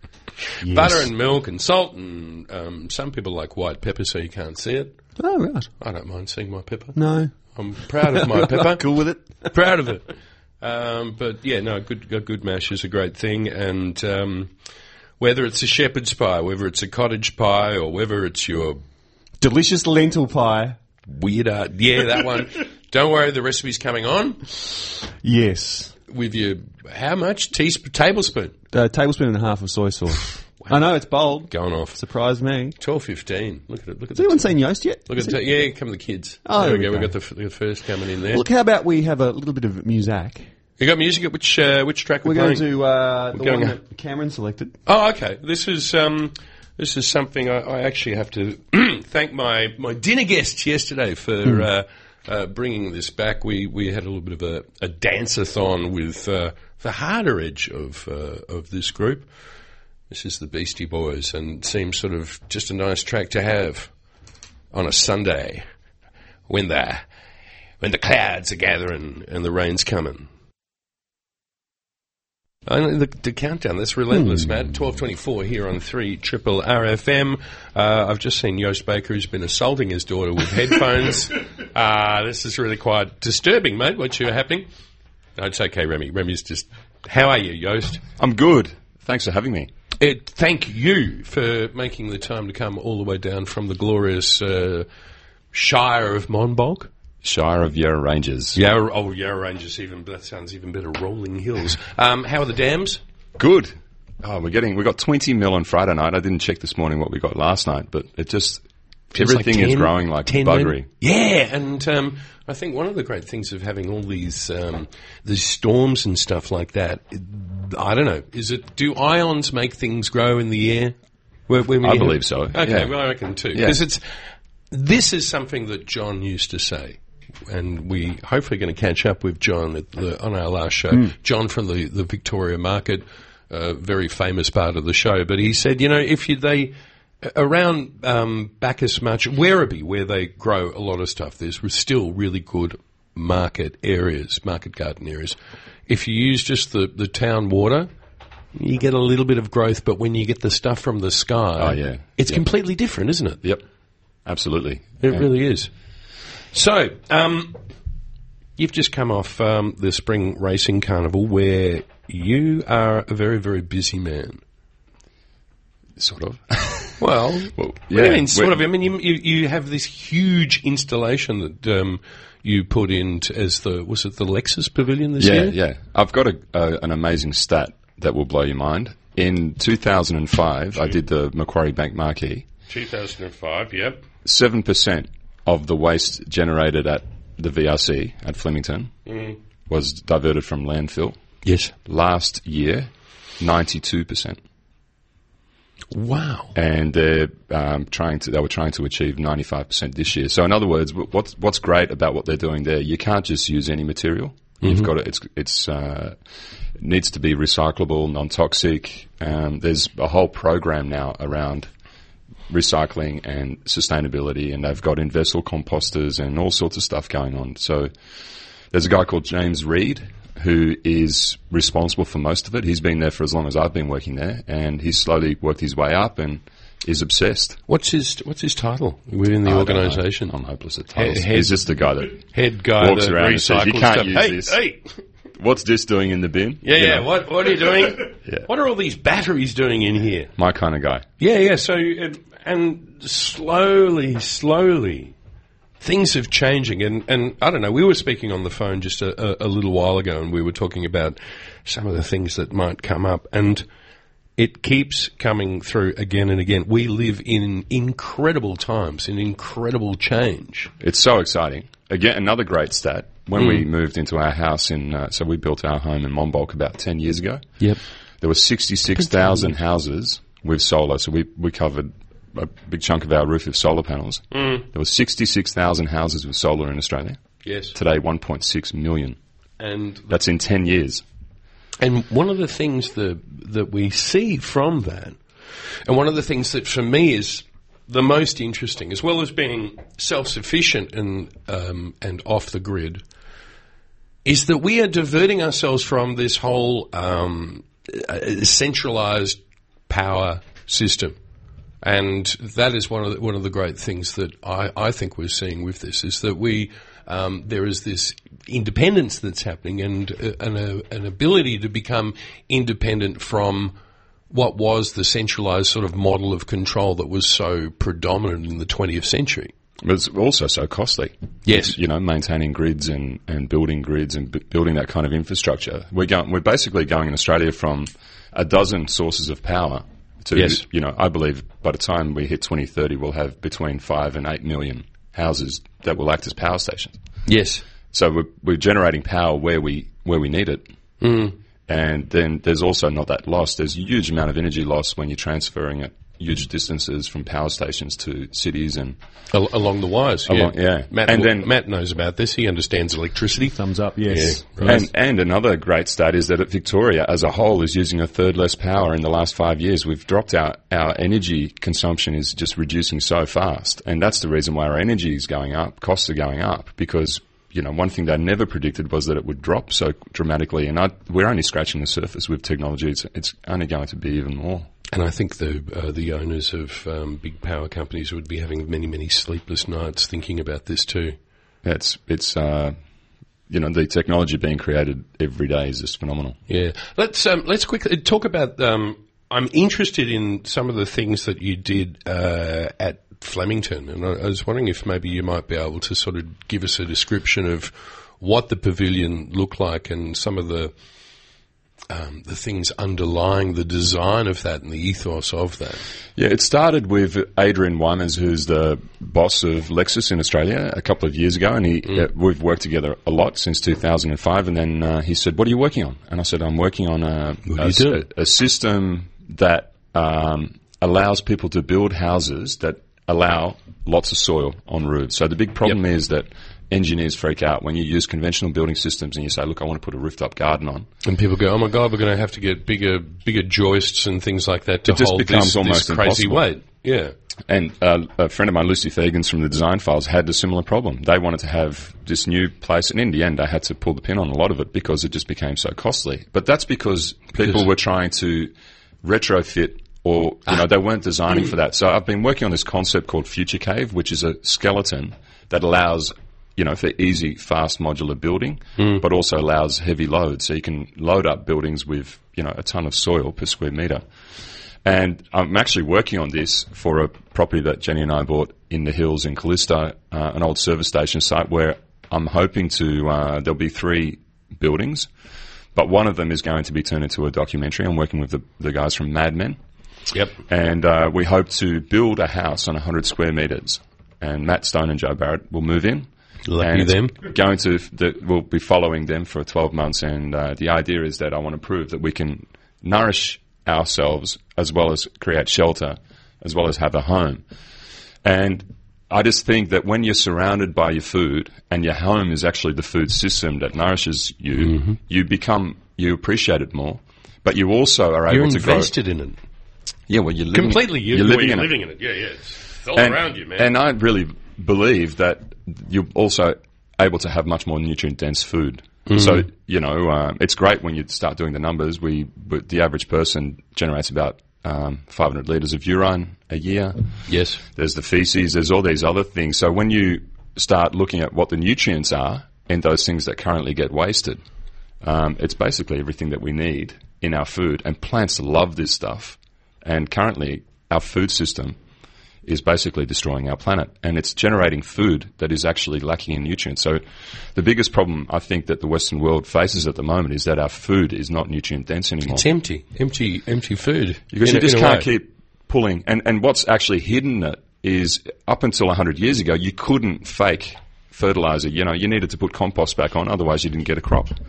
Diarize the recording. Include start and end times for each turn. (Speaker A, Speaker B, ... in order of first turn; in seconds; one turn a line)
Speaker A: 0.6-5.0
Speaker B: 0.6-1.1
Speaker B: 5.2-5.7
Speaker A: 5.8-8.9
Speaker B: 7.0-7.3
Speaker B: 8.0-9.5
Speaker A: 9.5-14.5
Speaker A: 15.2-18.8
Speaker B: 19.4-20.8
Speaker A: 21.1-24.6
Speaker B: 25.2-25.9
Speaker A: 26.1-28.6
Speaker B: 28.7-32.8
Speaker A: 31.5-32.0
Speaker A: 32.8-38.5
Speaker B: 34.1-35.4
Speaker B: 36.5-37.1
Speaker B: 38.3-40.5
Speaker A: 40.8-42.8
Speaker B: 42.2-44.8
Speaker A: 43.3-43.8
Speaker A: 44.9-59.3
Speaker A: 60.1-63.9
Speaker A: 64.7-65.6
Speaker A: 66.5-67.0
Speaker A: 67.8-70.3
Speaker A: 72.7-84.7
Speaker A: 85.4-88.0
Speaker C: 88.2-89.7
Speaker A: 90.0-94.9
Speaker A: 95.5-96.9
Speaker C: 97.2-98.6
Speaker A: 98.5-103.0
Speaker C: 103.4-108.6
Speaker A: 109.1-121.0
Speaker C: 109.1-110.9
Speaker A: 121.5-124.0
Speaker C: 121.8-122.9
Speaker C: 123.5-123.8
Speaker A: 124.7-145.4
Speaker A: 145.9-147.9
Speaker A: 148.6-153.4
Speaker C: 151.6-152.4
Speaker C: 154.2-155.3
Speaker A: 155.0-155.7
Speaker A: 156.5-157.6
Speaker A: 158.6-164.4
Speaker C: 166.0-167.0
Speaker A: 167.0-175.6
Speaker C: 167.6-168.6
Speaker C: 175.2-182.5
Speaker A: 182.7-184.0
Speaker C: 184.2-188.9
Speaker A: 189.1-189.4
Speaker C: 189.7-191.2
Speaker A: 191.4-191.7
Speaker C: 191.8-194.4
Speaker A: 195.9-196.6
Speaker C: 196.6-206.1
Speaker A: 204.6-204.9
Speaker C: 206.8-211.7
Speaker C: 212.5-217.9
Speaker C: 218.7-227.6
Speaker A: 227.7-230.3
Speaker C: 229.4-232.2
Speaker A: 230.9-234.8
Speaker C: 232.8-234.6
Speaker C: 235.4-237.1
Speaker A: 236.6-240.3
Speaker C: 240.4-241.1
Speaker A: 241.2-245.1
Speaker A: 245.8-253.6
Speaker A: 254.4-260.7
Speaker C: 260.8-267.5
Speaker A: 263.4-263.6
Speaker C: 268.2-277.2
Speaker A: 269.0-269.5
Speaker A: 274.3-274.6
Speaker A: 277.4-277.8
Speaker C: 277.8-279.2
Speaker A: 279.6-280.1
Speaker C: 280.1-281.0
Speaker A: 281.8-285.2
Speaker A: 285.9-293.0
Speaker A: 294.2-301.1
Speaker A: 301.8-313.7
Speaker A: 314.3-319.5
Speaker C: 319.8-337.0
Speaker A: 321.4-321.8
Speaker A: 330.3-330.6
Speaker A: 337.3-337.6
Speaker C: 337.9-340.7
Speaker A: 341.0-341.4
Speaker C: 341.7-349.0
Speaker A: 349.3-354.8
Speaker C: 350.3-351.5
Speaker B: 353.5-354.9
Speaker C: 354.6-374.7
Speaker A: 374.9-381.1
Speaker C: 381.6-382.8
Speaker C: 383.5-386.4
Speaker A: 386.5-400.7
Speaker A: 401.9-405.8
Speaker C: 406.1-430.9
Speaker A: 417.5-418.0
Speaker A: 431.0-437.1
Speaker C: 434.9-436.4
Speaker C: 437.5-448.5
Speaker C: 449.0-464.0
Speaker A: 458.8-459.0
Speaker C: 464.9-475.1
Speaker C: 475.8-479.6
Speaker C: 480.5-486.1
Speaker A: 486.5-487.1
Speaker C: 486.6-497.4
Speaker C: 498.2-508.9
Speaker A: 508.3-509.4
Speaker C: 510.1-511.7
Speaker A: 510.5-513.7
Speaker C: 512.9-527.0
Speaker A: 519.1-519.5
Speaker A: 527.3-527.6
Speaker C: 527.7-534.4
Speaker C: 535.0-541.8
Speaker C: 542.4-547.0
Speaker C: 547.5-552.5
Speaker A: 552.3-555.1
Speaker C: 554.3-564.4